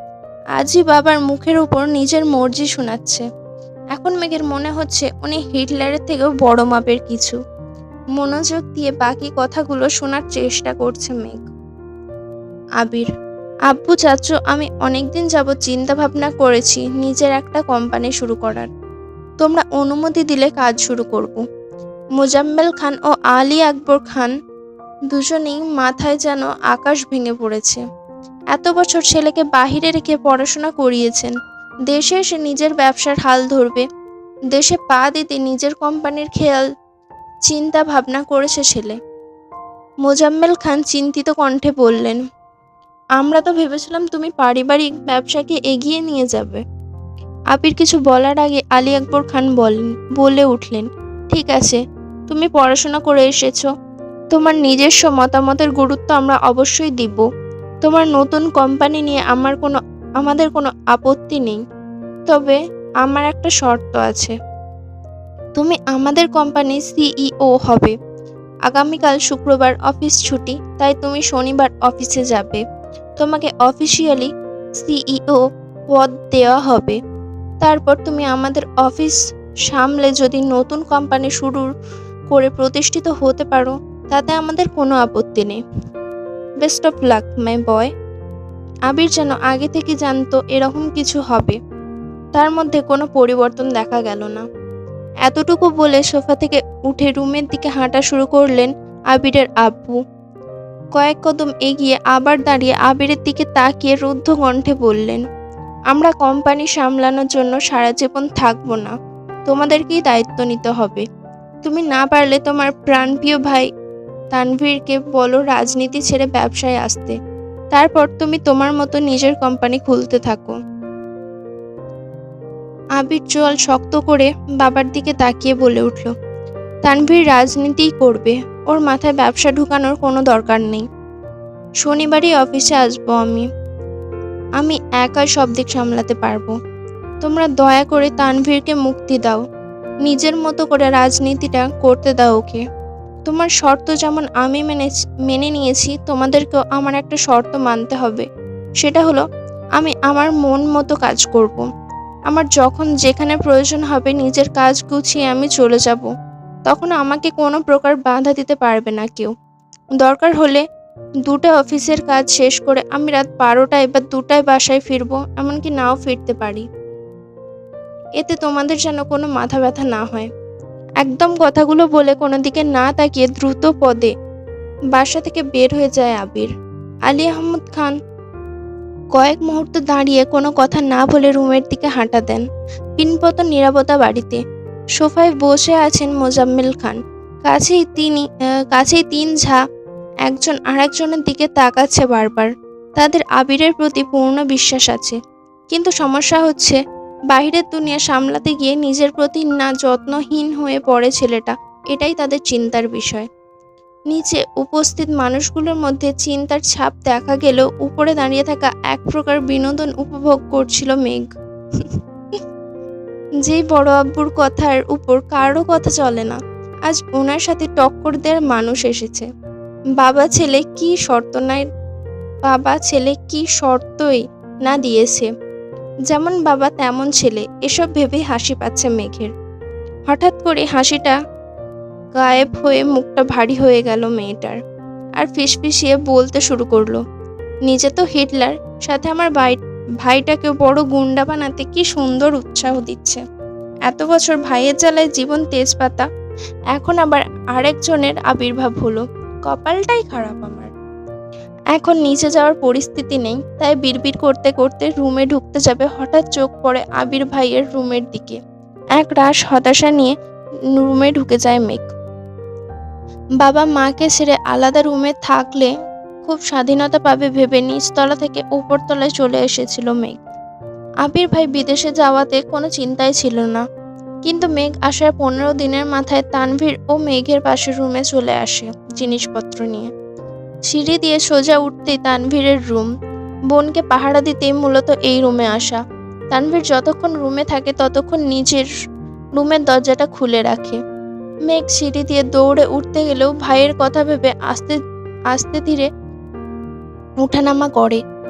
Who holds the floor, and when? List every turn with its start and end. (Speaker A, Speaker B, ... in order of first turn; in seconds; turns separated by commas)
Speaker A: 0.6-3.2, Speaker A: 3.9-7.4, Speaker A: 8.2-11.5, Speaker A: 12.8-13.1, Speaker A: 13.7-18.7, Speaker A: 19.4-21.4, Speaker A: 22.2-24.4, Speaker A: 25.1-27.8, Speaker A: 28.5-31.4, Speaker A: 31.9-33.9, Speaker A: 34.5-36.7, Speaker A: 37.5-39.0, Speaker A: 40.0-42.2, Speaker A: 43.2-46.6, Speaker A: 47.5-53.7, Speaker A: 54.3-57.2, Speaker A: 57.9-61.6, Speaker A: 62.3-64.3, Speaker A: 65.6-68.0, Speaker A: 68.7-72.6, Speaker A: 73.2-77.0, Speaker A: 77.6-81.7, Speaker A: 82.3-85.6, Speaker A: 86.6-87.9, Speaker A: 88.9-91.6, Speaker A: 92.3-94.5, Speaker A: 95.2-100.0, Speaker A: 101.0-105.2, Speaker A: 105.9-108.9, Speaker A: 109.5-111.0, Speaker A: 111.7-113.7, Speaker A: 114.3-117.2, Speaker A: 117.7-120.6, Speaker A: 123.0-126.1, Speaker A: 126.8-130.9, Speaker A: 131.8-133.5, Speaker A: 134.6-136.5, Speaker A: 137.2-139.4, Speaker A: 140.0-142.6, Speaker A: 143.2-148.3, Speaker A: 148.8-149.2, Speaker A: 149.8-151.7, Speaker A: 152.3-156.1, Speaker A: 156.7-159.3, Speaker A: 160.0-160.7, Speaker A: 161.2-166.7, Speaker A: 168.2-170.3, Speaker A: 171.0-174.1, Speaker A: 174.9-176.5, Speaker A: 177.1-177.9, Speaker A: 179.2-182.4, Speaker A: 183.0-184.4, Speaker A: 185.0-189.6, Speaker A: 190.3-195.2, Speaker A: 195.7-196.8, Speaker A: 197.3-203.3, Speaker A: 204.1-211.2, Speaker A: 213.4-219.3, Speaker A: 220.0-221.7, Speaker A: 222.4-225.3, Speaker A: 226.1-229.3, Speaker A: 230.1-231.2, Speaker A: 232.2-234.6, Speaker A: 235.2-237.0, Speaker A: 237.7-243.2, Speaker A: 243.9-246.1, Speaker A: 246.7-250.7, Speaker A: 251.7-258.4, Speaker A: 259.0-260.1, Speaker A: 260.8-261.9, Speaker A: 263.4-265.7, Speaker A: 266.2-270.2, Speaker A: 271.1-273.6, Speaker A: 274.2-279.9, Speaker A: 280.7-282.9, Speaker A: 283.5-285.8, Speaker A: 286.3-288.7, Speaker A: 289.4-290.8, Speaker A: 291.5-294.8, Speaker A: 295.3-295.9, Speaker A: 297.2-298.0